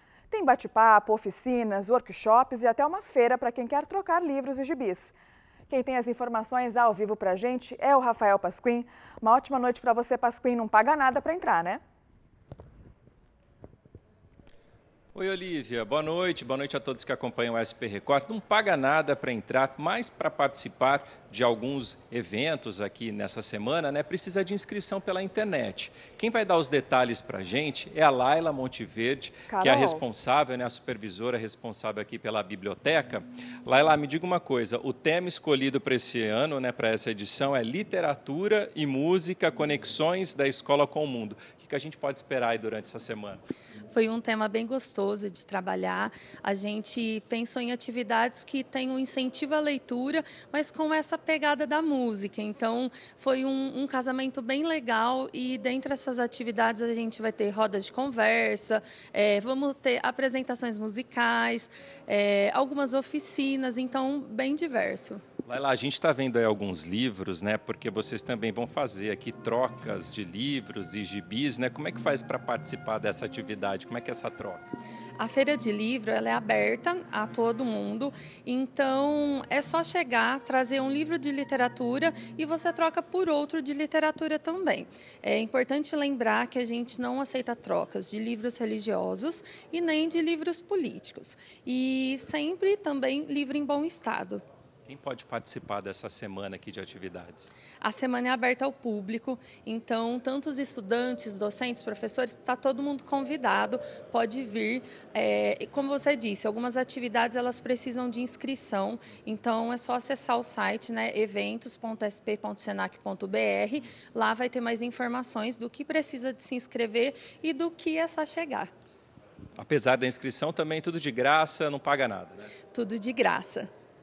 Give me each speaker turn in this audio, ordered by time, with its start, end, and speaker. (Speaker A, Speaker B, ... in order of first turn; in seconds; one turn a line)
Speaker A: 0.3-5.1
Speaker A: 5.7-11.8
Speaker B: 15.1-43.4
Speaker A: 29.5-30.0
Speaker C: 43.9-65.2
Speaker B: 65.5-74.6
Speaker C: 75.2-94.4
Speaker B: 94.8-97.5
Speaker C: 97.8-118.7
Speaker B: 119.6-122.5
Speaker C: 122.7-123.7